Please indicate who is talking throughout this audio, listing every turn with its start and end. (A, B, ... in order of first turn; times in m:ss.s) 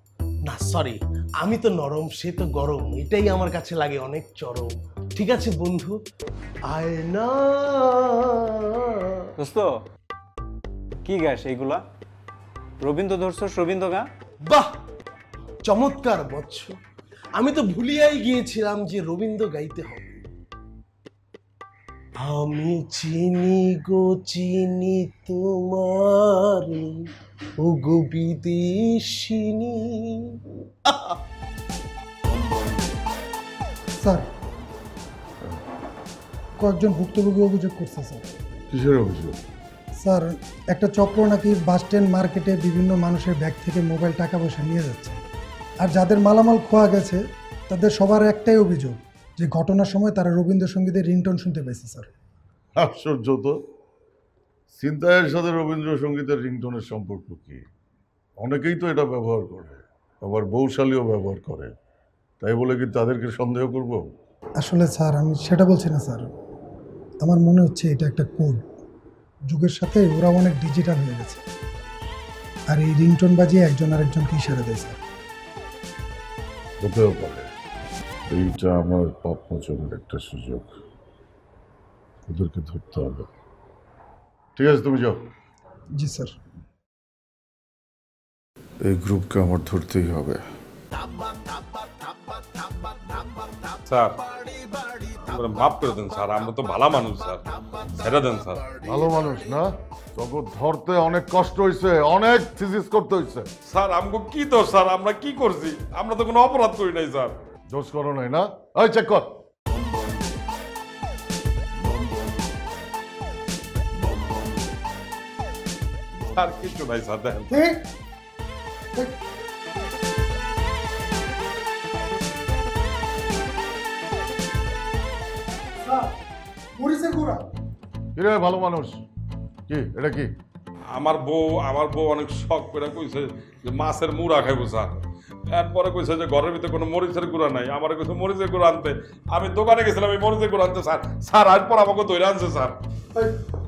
0:00.5-0:06.0 A
0:06.7-0:09.3 A
0:09.4-0:09.7 B
0:11.0-0:11.8 B
0:12.8-0:14.1 B
0:14.4-0:14.7 A
0:15.6-0:16.8 A
0:17.4-0:20.2 A
0:22.2-0:27.1 A
0:27.6-0:31.2 A
0:36.6-0:38.2 C
0:38.7-0:39.4 D
0:40.0-0:45.2 C
0:45.8-0:52.1 C
0:52.8-0:53.6 D
0:54.8-0:57.6 D
0:58.4-1:01.7 D
1:02.4-1:04.1 D
1:04.6-1:06.3 C
1:07.2-1:08.6 C
1:09.5-1:11.4 C
1:12.7-1:15.0 C
1:16.8-1:17.5 D
1:18.3-1:20.7 D
1:22.3-1:23.3 D
1:24.6-1:25.2 D
1:26.0-1:26.3 C
1:28.8-1:30.4 D
1:33.9-1:34.2 E
1:35.2-1:37.4 E
1:38.0-1:38.6 E
1:38.8-1:43.5 D
1:43.7-1:47.4 E
1:47.7-1:49.3 D
1:56.2-1:57.6 E
1:57.5-1:57.8 C
2:05.8-2:06.1 C
2:06.8-2:07.4 C
2:08.2-2:09.0 D
2:09.7-2:10.3 D
2:10.9-2:14.9 E
2:15.5-2:22.8 E